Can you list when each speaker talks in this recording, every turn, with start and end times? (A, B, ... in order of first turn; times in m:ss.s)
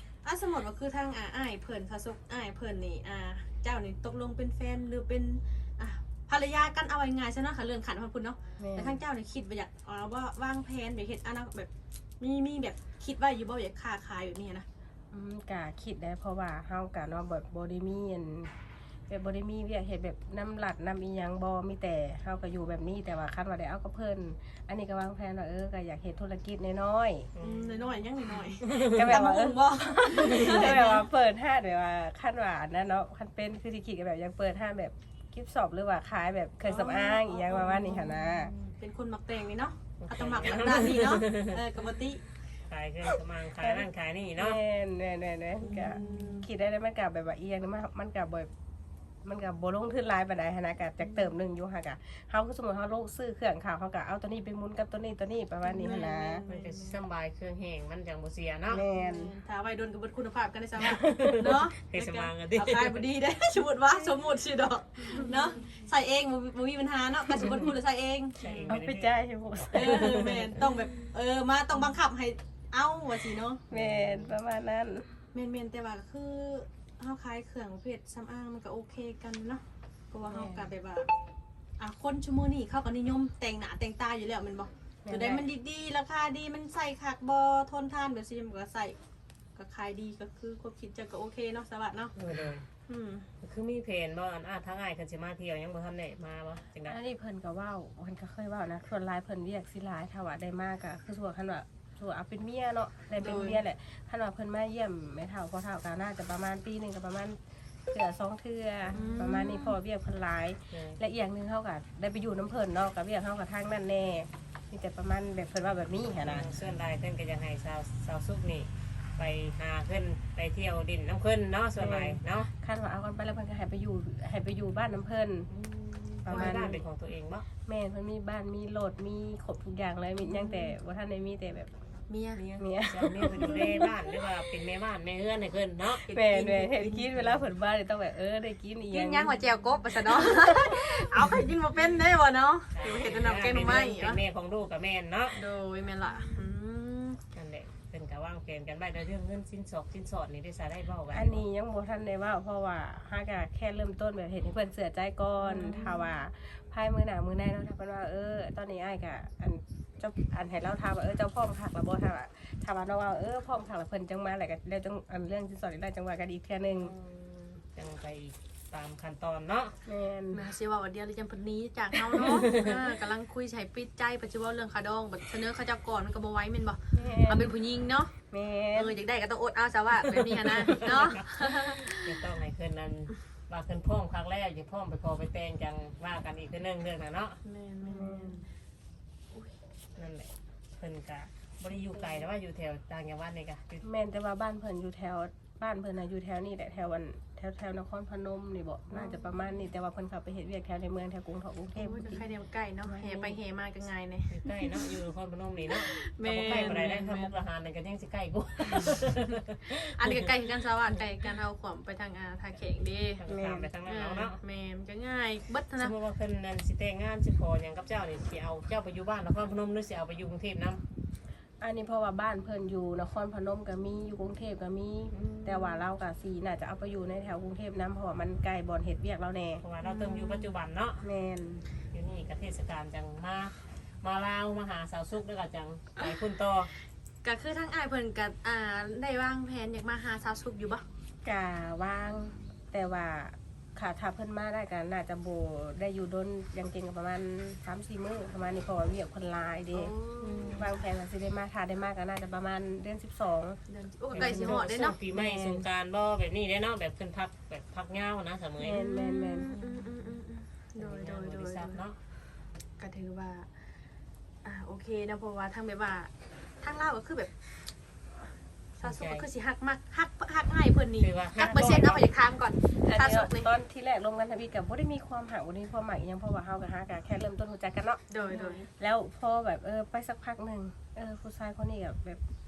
0:00.2-0:14.6 A
0:08.6-0:09.0 B
0:15.1-0:18.5 B
0:19.1-0:27.3 B
0:27.4-0:27.9 C
0:27.4-0:31.0 A
0:28.6-0:38.5 B
0:28.7-0:29.0 C
0:30.2-0:30.8 C
0:36.6-0:42.2 A
0:40.0-0:41.6 C
0:42.6-0:44.6 C
0:43.6-0:48.5 B
0:45.6-0:46.5 A
0:49.2-0:56.4 B
0:51.0-0:51.3 A
0:55.6-0:57.0 A
0:56.5-0:58.8 C
0:58.7-0:59.3 B
0:58.9-1:08.8 A
1:01.0-1:01.5 B
1:01.1-1:03.0 C
1:07.3-1:07.6 B
1:08.4-1:09.1 C
1:08.7-1:10.6 B
1:09.7-1:13.6 A
1:09.8-1:10.5 C
1:13.7-1:14.4 C
1:13.7-1:15.2 B
1:15.3-1:21.1 A
1:20.2-1:20.7 B
1:21.8-1:29.0 A
1:25.0-1:25.5 B
1:29.6-1:32.1 A
1:32.2-1:32.6 C
1:32.9-1:33.3 A
1:33.4-1:37.0 C
1:36.8-1:47.4 B
1:43.2-1:43.6 A
1:47.9-1:56.5 B
1:48.9-1:49.2 C
1:48.9-1:49.8 A
1:50.7-1:51.0 C
1:56.2-2:02.5 C
2:01.8-2:05.5 B
2:05.5-2:07.4 C
2:06.2-2:06.8 B
2:06.3-2:06.8 A
2:07.6-2:11.7 B
2:10.2-2:10.7 A
2:12.1-2:12.4 A
2:12.4-2:16.0 C
2:12.6-2:14.1 B
2:16.0-2:17.2 A
2:16.1-2:19.4 B
2:18.9-2:24.2 A
2:20.0-2:21.5 B
2:22.7-2:25.4 C
2:25.3-2:27.2 A
2:27.3-2:31.4 C
2:31.1-2:46.9 B
2:35.4-2:36.1 A
2:46.8-2:49.8 C
2:49.8-2:50.5 B
2:50.3-2:58.1 A
2:52.2-2:52.8 C
2:56.9-2:57.5 B
2:58.3-2:58.9 B
2:58.7-3:02.2 A
3:00.1-3:07.4 C
3:07.4-3:08.4 A
3:07.8-3:08.4 B
3:09.3-3:09.6 A
3:09.9-3:13.8 C
3:11.9-3:12.2 A
3:13.8-3:22.2 B
3:18.9-3:19.3 A
3:21.8-3:24.5 A
3:22.8-3:23.4 B
3:24.3-3:30.2 C
3:25.7-3:27.4 A
3:26.5-3:26.8 B
3:29.8-3:33.2 A
3:33.2-3:34.4 C
3:33.3-3:33.7 B
3:33.8-3:35.9 A
3:35.8-3:40.8 C
3:41.6-3:49.6 B
3:45.1-3:45.8 C
3:49.6-3:51.0 C
3:49.8-3:50.5 A
3:51.0-3:51.6 B
3:51.9-3:56.7 C
3:57.2-4:00.8 A
4:01.2-4:13.6 B
4:09.7-4:10.7 A
4:13.7-4:15.0 A
4:14.1-4:18.8 C
4:14.1-4:15.6 B
4:18.6-4:19.5 B
4:18.7-4:21.8 A
4:20.8-4:22.0 C
4:22.8-4:23.5 A
4:24.4-4:27.4 A
4:28.8-4:33.5 A
4:28.8-4:29.2 C
4:31.0-4:32.1 C
4:32.8-4:42.2 B
4:38.1-4:38.7 A